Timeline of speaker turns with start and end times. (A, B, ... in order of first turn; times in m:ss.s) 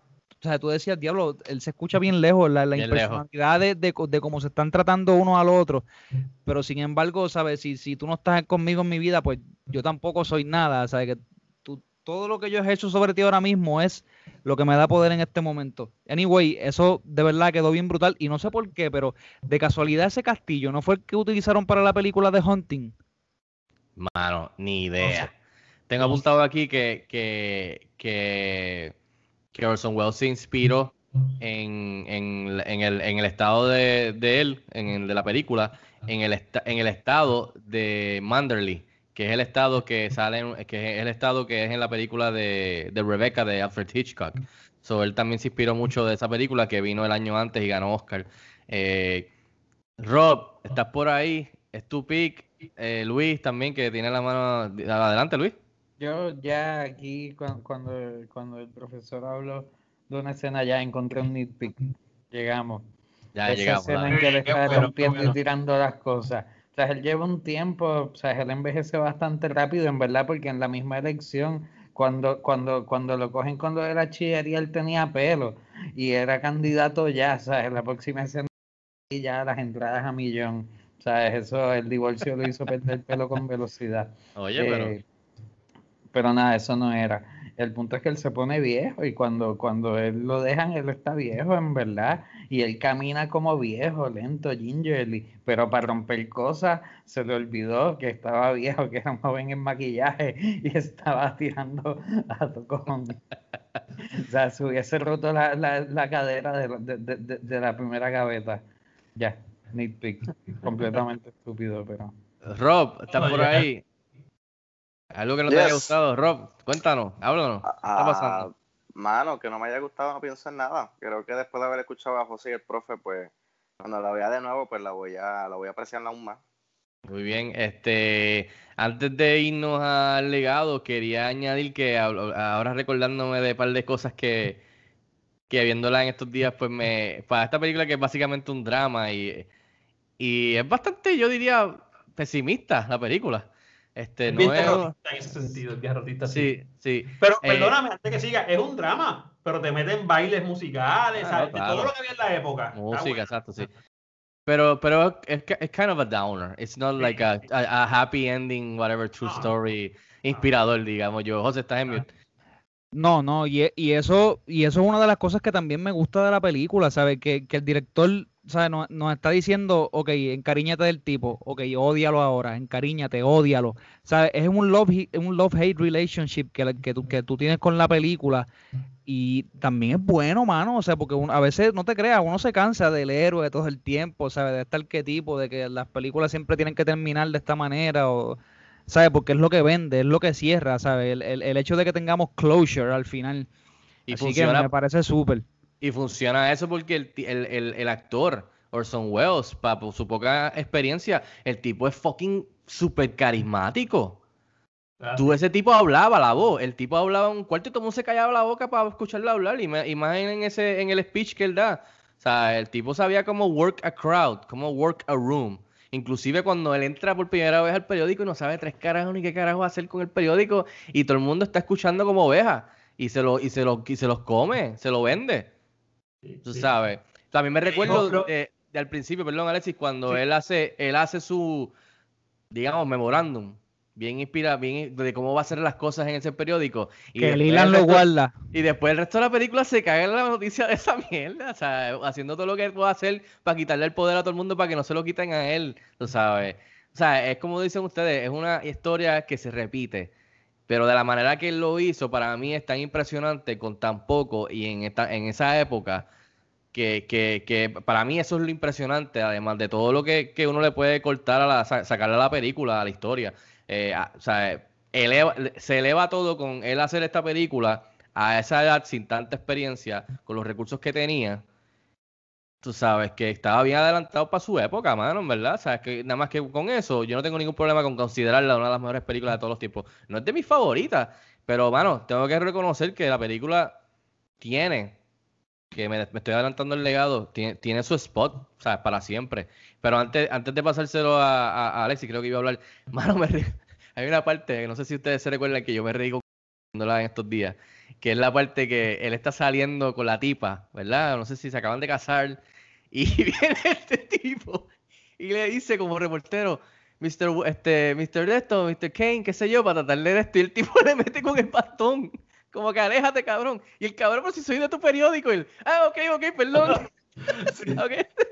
0:00.4-0:05.8 A
0:02.8-0:03.2 B
0:06.4-0:22.9 A
0:24.0-0:25.3 B
0:25.0-0:25.3 C
0:25.9-0:28.9 B
0:29.5-0:49.3 B
0:50.0-0:55.6 B
0:56.0-1:02.8 D
1:03.4-1:05.3 B
1:03.5-1:18.5 D
1:04.1-1:05.3 C
1:19.1-1:25.0 D
1:24.4-1:24.9 B
1:26.1-1:43.2 D
1:44.2-1:48.6 D
1:49.2-1:52.1 D
1:52.5-1:53.8 B
1:53.1-1:53.7 C
1:55.1-1:58.5 B
1:55.5-1:55.9 E
1:57.6-2:06.4 E
2:07.1-2:14.6 B
2:15.5-2:19.5 B
2:20.2-2:24.9 B
2:24.3-2:26.5 C
2:26.3-2:27.8 B
2:27.2-2:33.4 C
2:31.2-2:31.9 B
2:32.8-2:33.7 B
2:34.5-2:42.1 B
2:39.2-2:39.5 C
2:43.0-2:58.5 A
2:59.1-3:13.5 A
3:14.1-3:14.7 B
3:14.1-3:15.4 A
3:15.8-3:24.2 B
3:25.0-3:25.4 C
3:25.2-3:45.5 B
3:46.2-3:46.7 C
3:46.5-3:51.7 B
3:47.6-3:48.3 C
3:52.5-4:10.1 B
3:57.2-3:58.3 A
4:10.7-4:16.1 B
4:16.7-4:31.4 B
4:32.6-4:43.8 B
4:44.4-4:45.0 B
4:45.7-4:56.2 B
4:56.7-5:02.4 B
5:02.9-5:04.7 B
5:05.2-5:16.9 B
5:16.6-5:17.8 C
5:17.7-5:18.1 B